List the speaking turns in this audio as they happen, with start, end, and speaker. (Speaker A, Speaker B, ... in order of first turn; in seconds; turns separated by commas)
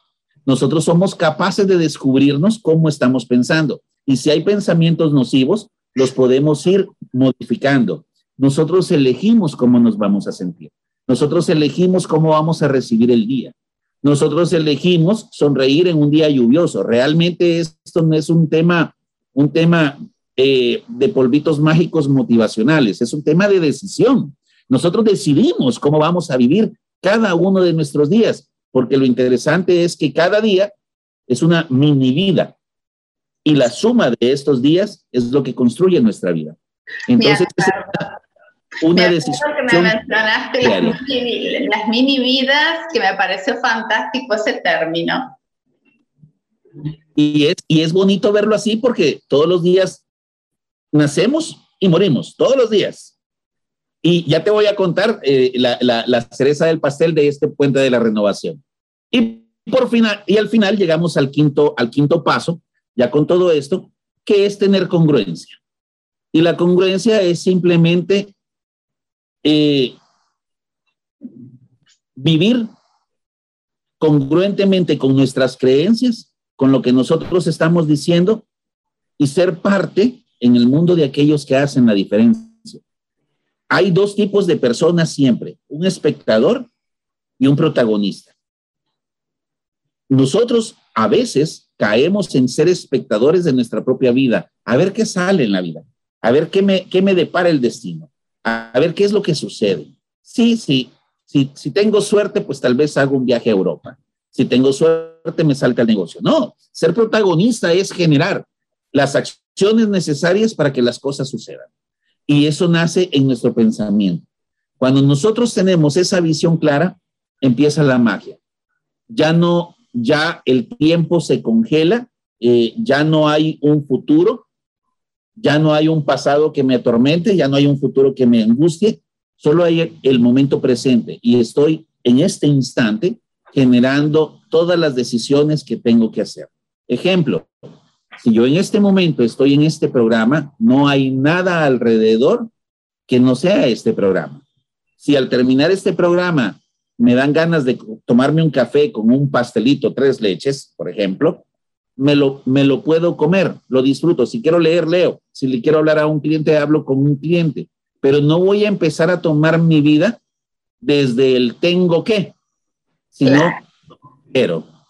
Speaker A: 0.5-30.7, Speaker A: 31.3-32.5, Speaker A: 33.4-38.0, Speaker B: 37.2-38.2, Speaker A: 38.8-40.0, Speaker B: 38.9-45.4, Speaker A: 40.6-41.0, Speaker A: 47.1-50.0, Speaker A: 50.9-53.1, Speaker A: 54.0-58.6, Speaker A: 59.1-65.6, Speaker A: 66.3-68.3, Speaker A: 69.4-70.0, Speaker A: 72.2-72.7, Speaker A: 74.0-78.5, Speaker A: 79.2-82.8, Speaker A: 83.7-86.7, Speaker A: 87.4-88.3, Speaker A: 90.1-111.7, Speaker A: 112.3-114.2, Speaker A: 114.8-118.4, Speaker A: 119.1-124.5, Speaker A: 125.4-137.5, Speaker A: 138.2-142.5, Speaker A: 143.1-144.4, Speaker A: 145.0-151.4, Speaker A: 152.0-160.2, Speaker A: 160.8-162.3, Speaker A: 163.1-163.6, Speaker B: 163.2-163.5, Speaker A: 164.3-164.6